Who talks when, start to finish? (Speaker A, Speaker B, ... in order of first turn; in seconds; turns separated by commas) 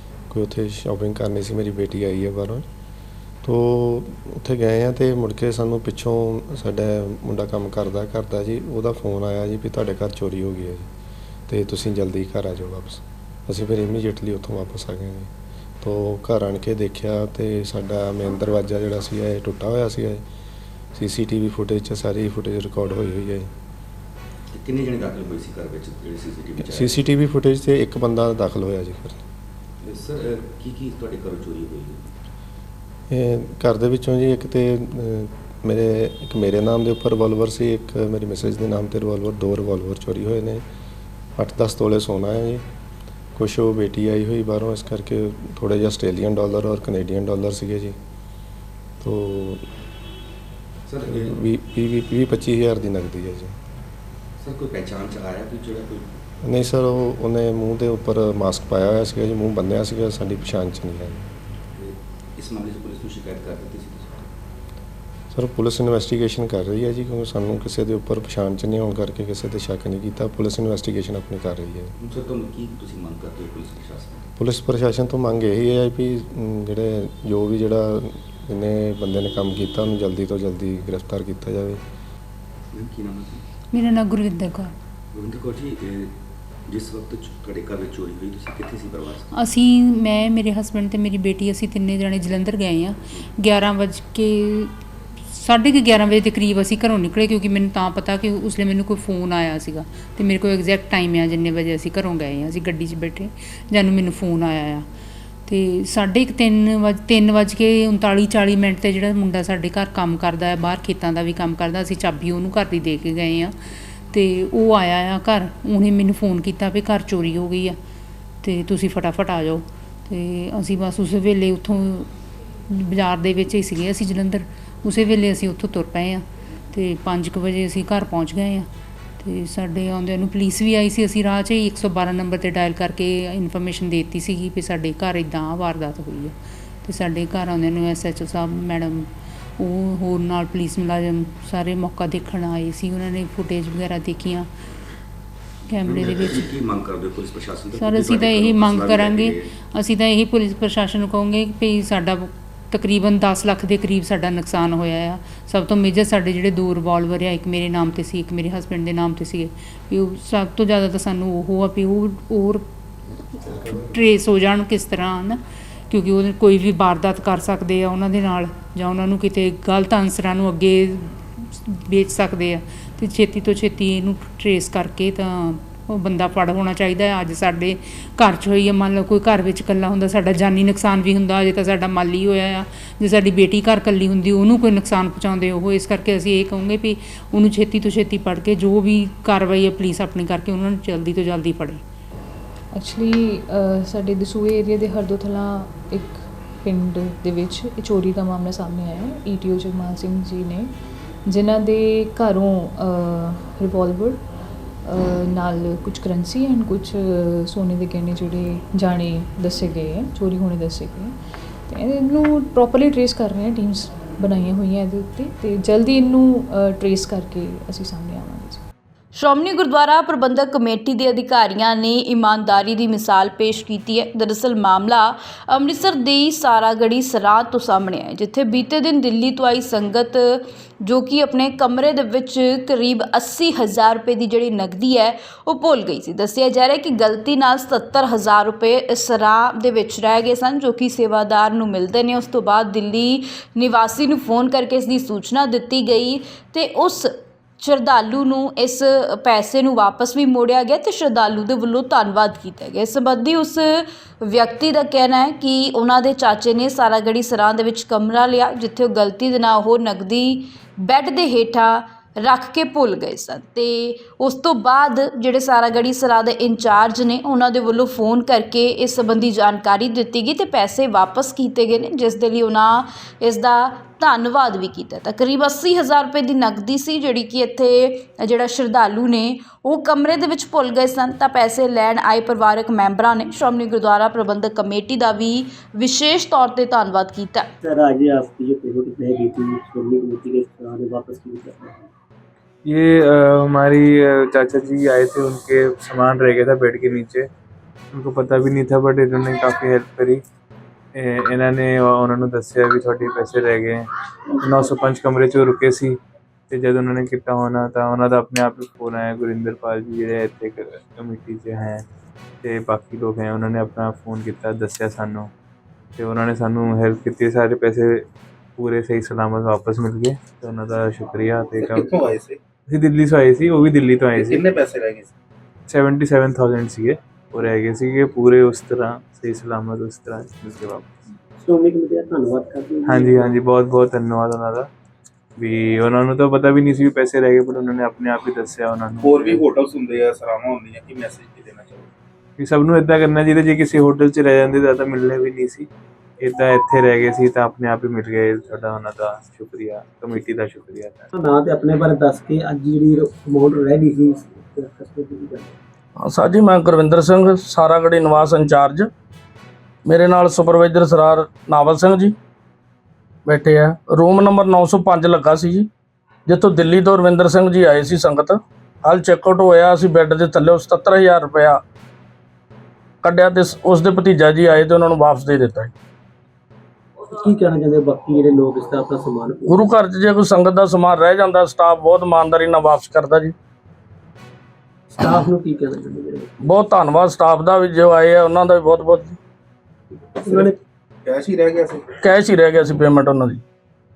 Speaker A: 0.3-2.6, Speaker A: 3.4-10.9, Speaker A: 11.5-20.2, Speaker A: 20.9-23.5, Speaker B: 24.5-27.1, Speaker A: 26.6-29.2, Speaker B: 29.8-32.1, Speaker A: 33.1-40.6, Speaker A: 41.4-42.6, Speaker A: 43.3-48.0, Speaker A: 49.0-49.6, Speaker B: 50.9-51.3, Speaker A: 51.0-53.6, Speaker B: 54.4-56.1, Speaker A: 56.4-61.3, Speaker B: 61.7-64.3, Speaker A: 65.3-71.9, Speaker B: 72.0-74.3, Speaker A: 74.3-81.8, Speaker B: 82.7-83.4, Speaker C: 83.7-84.7, Speaker B: 85.1-86.1, Speaker B: 86.7-89.3, Speaker C: 89.3-94.7, Speaker C: 95.3-104.8, Speaker C: 105.5-113.5, Speaker C: 114.1-117.8, Speaker C: 118.4-122.1, Speaker C: 122.7-128.7, Speaker C: 129.2-144.5, Speaker C: 145.7-146.5, Speaker B: 145.8-149.5, Speaker C: 147.8-162.7, Speaker C: 163.5-191.8, Speaker D: 192.7-200.7, Speaker D: 201.2-204.3, Speaker D: 204.8-218.6, Speaker E: 219.1-287.5, Speaker F: 287.6-291.8, Speaker G: 292.6-297.3, Speaker G: 297.9-300.2, Speaker G: 300.9-303.9, Speaker G: 304.4-306.0, Speaker G: 306.5-311.8, Speaker G: 312.4-315.3, Speaker G: 316.0-318.1, Speaker G: 318.6-322.1, Speaker H: 321.5-322.4, Speaker G: 322.7-324.5, Speaker H: 324.1-325.1, Speaker G: 325.7-330.9, Speaker F: 331.4-333.4, Speaker G: 332.9-334.7, Speaker G: 335.4-339.4, Speaker H: 339.0-341.9, Speaker G: 342.4-345.7, Speaker G: 346.2-351.1, Speaker F: 351.1-355.5, Speaker I: 356.0-358.9, Speaker I: 359.9-362.1, Speaker I: 363.2-365.6, Speaker I: 366.3-371.6, Speaker I: 373.0-375.7, Speaker F: 377.1-379.6, Speaker I: 379.5-383.3, Speaker F: 384.9-386.3, Speaker I: 386.4-389.1, Speaker F: 390.1-390.6, Speaker H: 391.0-391.8, Speaker I: 392.0-393.4